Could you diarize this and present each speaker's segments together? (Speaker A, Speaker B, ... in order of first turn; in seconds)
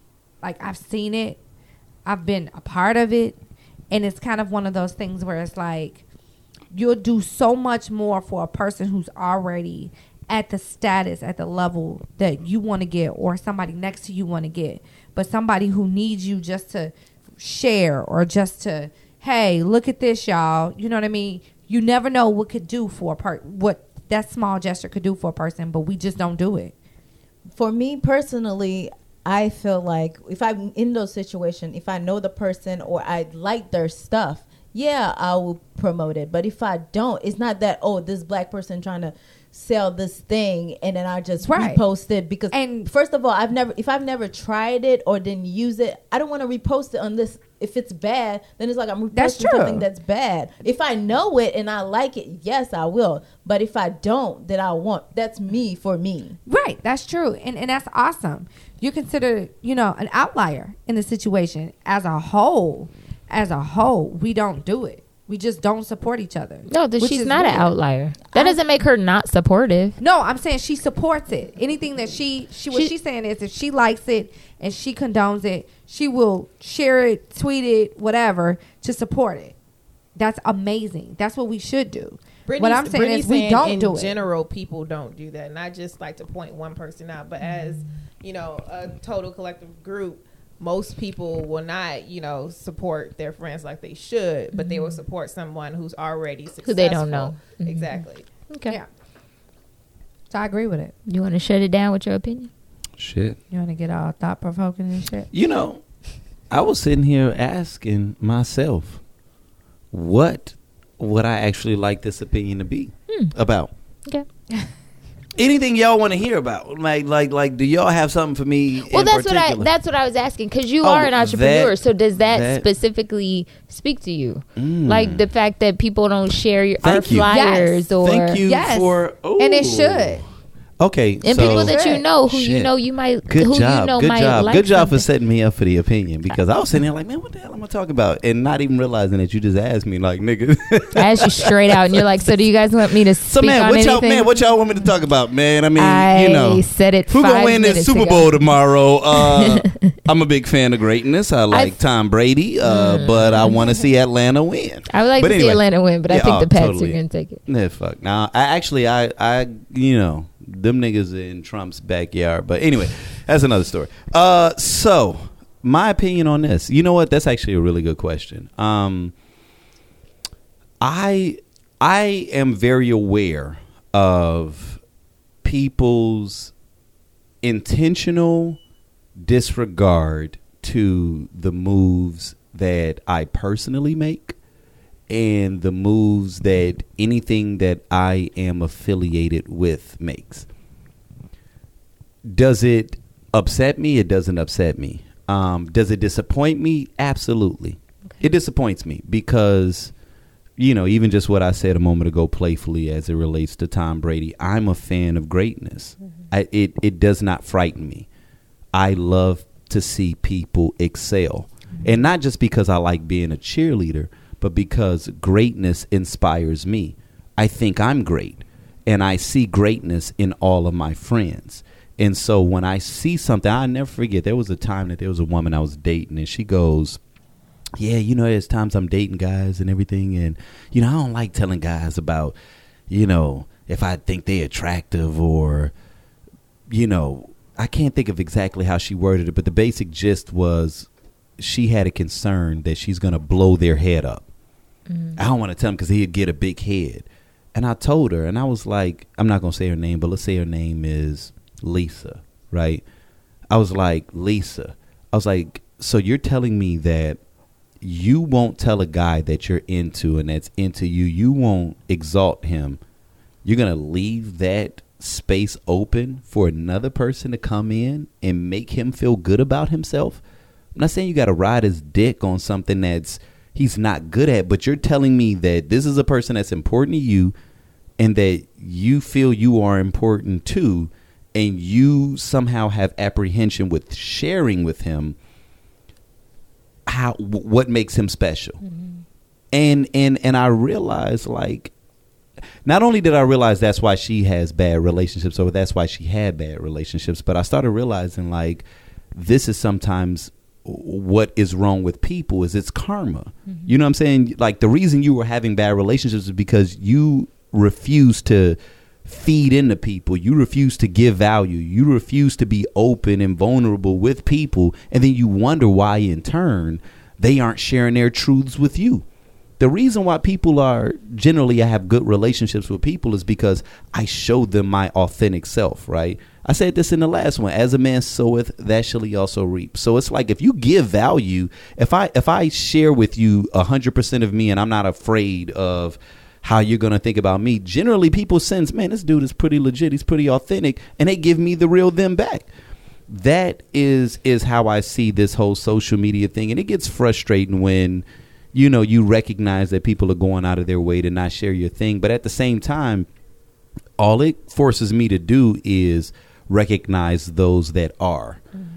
Speaker A: 0.4-1.4, 2.0-3.4, 3.9-6.0, 6.7-26.7, 41.4-41.9, 42.5-42.9, 49.1-49.8, 56.5-67.7, 70.0-79.5, 80.2-84.2, 100.3-100.9, 103.5-105.3, 127.3-127.9, 128.4-130.2, 131.4-132.1
Speaker B: 27.6-56.4
Speaker C: 66.7-70.0, 94.5-95.0, 96.7-98.8, 101.1-102.5, 113.1-113.3, 118.9-128.4, 131.2-135.1, 140.9-144.3, 145.8-148.4, 149.1-149.9, 151.5-151.8, 152.6-153.6, 154.9-157.4, 244.9-245.2, 288.6-289.0, 303.5-303.7
Speaker D: 82.5-98.2
Speaker E: 103.0-103.4, 105.3-105.8, 106.5-109.0, 109.9-113.7, 115.4-119.7, 120.8-122.7, 124.6-125.3, 126.8-127.3, 128.0-130.2, 130.8-132.7, 133.3-142.3, 143.3-169.1, 170.8-174.8, 175.4-176.5, 177.4-178.6, 179.2-184.4, 185.1-190.5, 192.3-199.9, 200.6-208.1, 208.7-227.0, 227.8-232.3, 232.9-235.7, 236.7-244.3, 245.2-252.8, 253.5-257.2, 257.8-262.8, 263.4-270.2, 270.8-277.3, 278.0-285.2, 286.9-288.6, 289.5-291.7, 292.6-319.1, 319.6-342.5, 343.1-353.1, 354.0-358.4